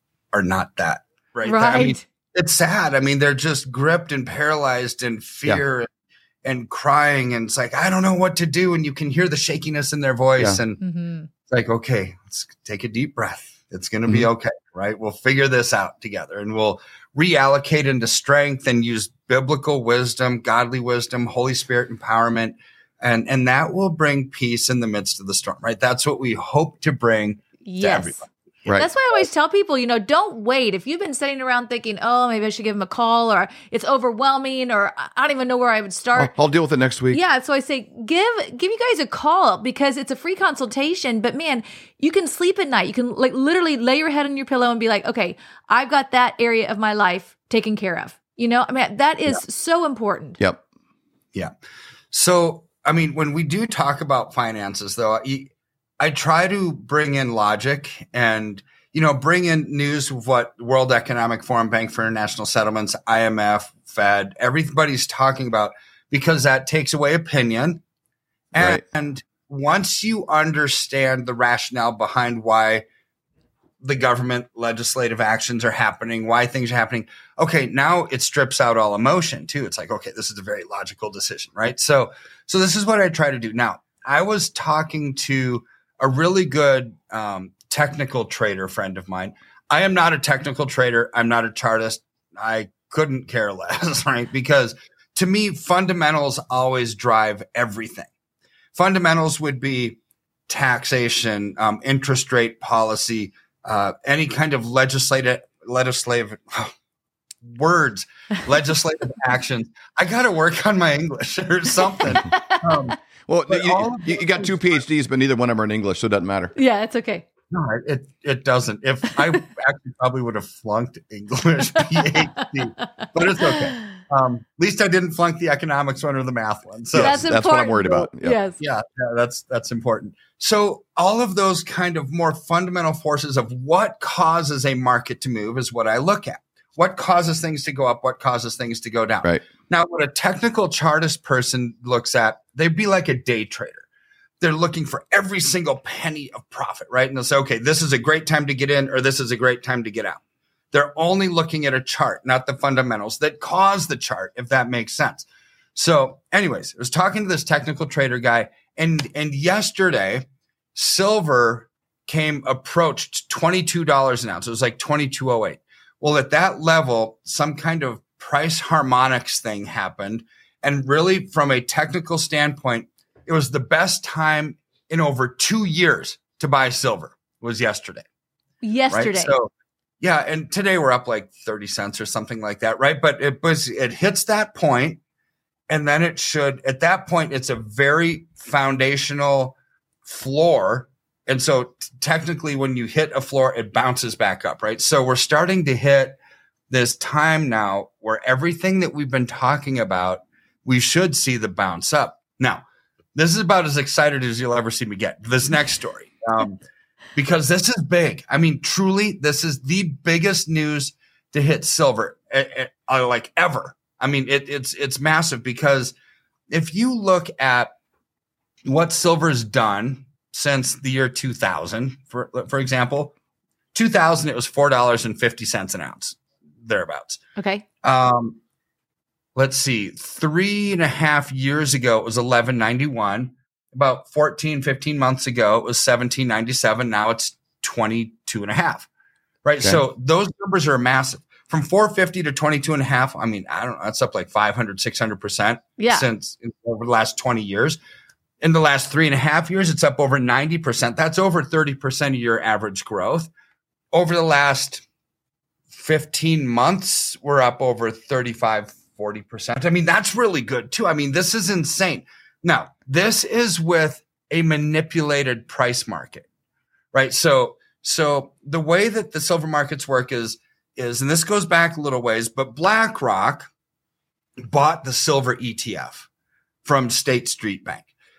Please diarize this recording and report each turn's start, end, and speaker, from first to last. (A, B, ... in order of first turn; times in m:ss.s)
0:00.3-0:05.9 A
0:01.4-0:02.0 B
0:06.4-0:10.8 A
0:10.8-0:11.3 B
0:11.5-0:29.3 A
0:27.6-0:28.2 B
0:28.7-0:36.3 B
0:36.1-0:37.2 C
0:37.1-0:50.4 B
0:52.1-1:07.8 A
1:08.5-1:12.8 A
1:08.6-1:08.8 C
1:13.8-1:38.1 A
1:38.7-1:46.7 A
1:47.4-1:53.0 A
1:52.0-1:52.9 B
1:53.3-1:56.5 C
1:53.5-1:54.8 A
1:56.5-1:57.2 B
1:57.5-2:07.2 A
2:02.4-2:03.5 B
2:06.9-2:08.4 C
2:06.9-2:08.6 B
2:08.6-2:23.8 A
2:24.4-2:30.2 A
2:30.7-2:58.0 A
2:58.6-2:59.3 B
2:58.9-2:59.5 A
3:00.0-3:05.0 A
3:05.7-3:16.2 A
3:16.7-3:22.6 A
3:23.2-3:26.6 A
3:27.1-3:35.9 A
3:36.5-3:37.7 A
3:38.6-3:43.1 A
3:43.7-3:47.2 A
3:47.4-3:47.6 B
3:47.8-3:48.4 A
3:49.4-3:58.9 A
3:59.4-4:07.8 A
4:05.8-4:06.1 B
4:08.4-4:13.3 A
4:13.9-4:14.8 A
4:15.7-4:26.2 A
4:26.9-4:33.5 A
4:34.5-4:36.1 A
4:36.6-4:37.9 A